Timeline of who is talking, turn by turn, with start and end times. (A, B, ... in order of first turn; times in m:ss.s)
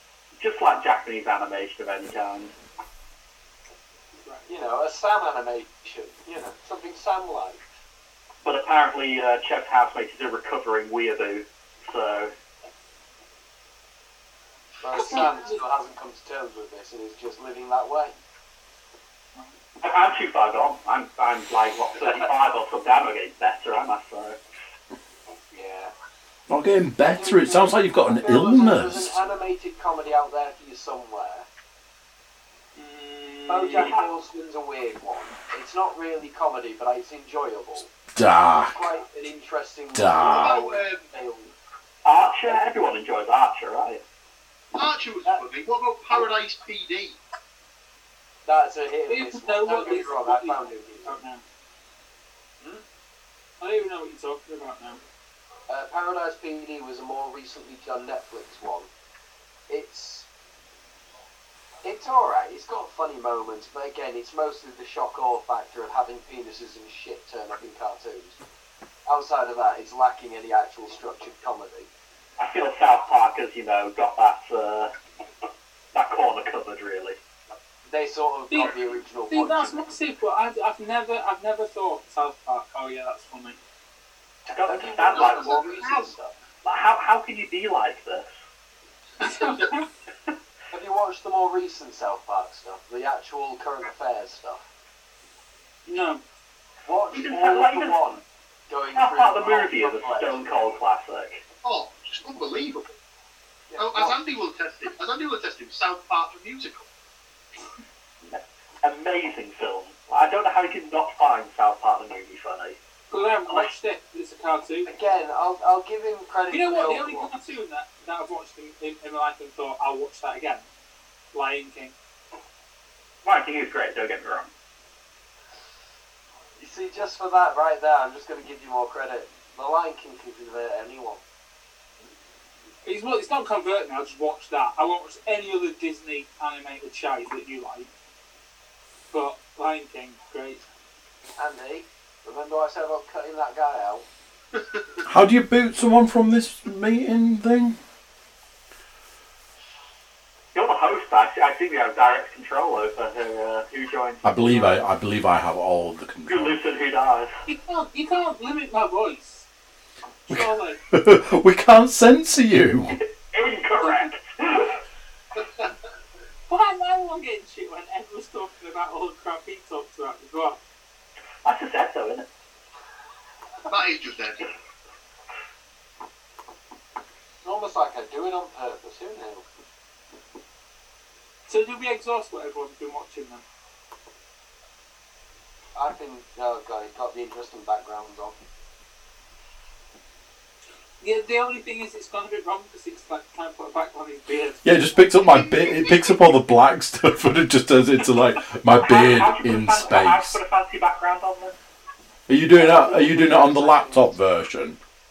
0:00.4-0:02.5 A
0:04.4-0:07.6 B
0:08.4-0:12.3 A
0:14.8-0:18.1 B
0:14.9-0:15.6 C
0:19.8-0:24.4 A
0:25.5-0:25.9 B
0:26.5-0:29.1 D
0:27.1-0:31.5 B
0:32.8-0:34.0 C
0:33.5-0:37.9 B
0:33.8-0:34.0 A
0:38.2-0:38.7 D
0:38.5-0:41.5 B
0:39.9-0:40.5 D
0:40.2-0:41.0 E
0:42.0-0:44.0 A
0:44.7-0:47.2 E
0:48.4-0:51.2 B
0:49.1-0:51.4 C
0:53.6-0:55.0 C
0:55.7-0:58.9 B
0:59.7-1:00.3 B
1:01.8-1:08.4 B
1:09.1-1:11.9 B
1:12.4-1:14.9 A
1:15.9-1:17.2 A
1:17.9-1:19.9 B
1:19.3-1:23.6 C
1:24.5-1:25.6 A
1:24.5-1:26.3 B
1:25.0-1:26.1 E
1:26.6-1:28.3 A
1:29.2-1:29.9 C
1:30.7-1:34.6 B
1:35.9-1:36.2 C
1:36.9-1:40.7 B
1:37.1-1:38.0 A
1:39.0-1:41.4 A
1:41.6-1:43.0 E
1:43.7-1:44.2 B
1:43.8-1:46.9 E
1:48.2-1:52.8 A
1:53.1-1:54.9 C
1:54.9-1:57.5 B
1:56.5-2:00.7 C
2:01.3-2:01.9 C
2:03.2-2:04.5 A
2:06.6-2:11.2 B
2:12.8-2:17.9 C
2:19.1-2:20.6 C
2:21.4-2:24.1 B
2:24.6-2:25.0 E
2:25.1-2:27.8 D
2:30.5-2:34.8 A
2:34.2-2:36.6 D
2:36.3-2:37.3 A
2:37.5-2:39.4 C
2:40.3-2:40.8 C
2:40.3-2:43.0 D
2:42.9-2:44.8 A
2:43.8-2:44.1 C
2:45.4-2:45.7 E
2:46.5-2:50.6 C
2:51.4-2:52.3 A
2:53.7-2:54.5 E
2:57.4-2:59.4 B
3:01.5-3:03.4 C
3:05.8-3:08.4 B
3:11.0-3:14.8 C
3:14.6-3:20.4 D
3:15.2-3:16.2 E
3:18.8-3:21.6 A
3:22.3-3:24.8 D
3:22.5-3:24.2 B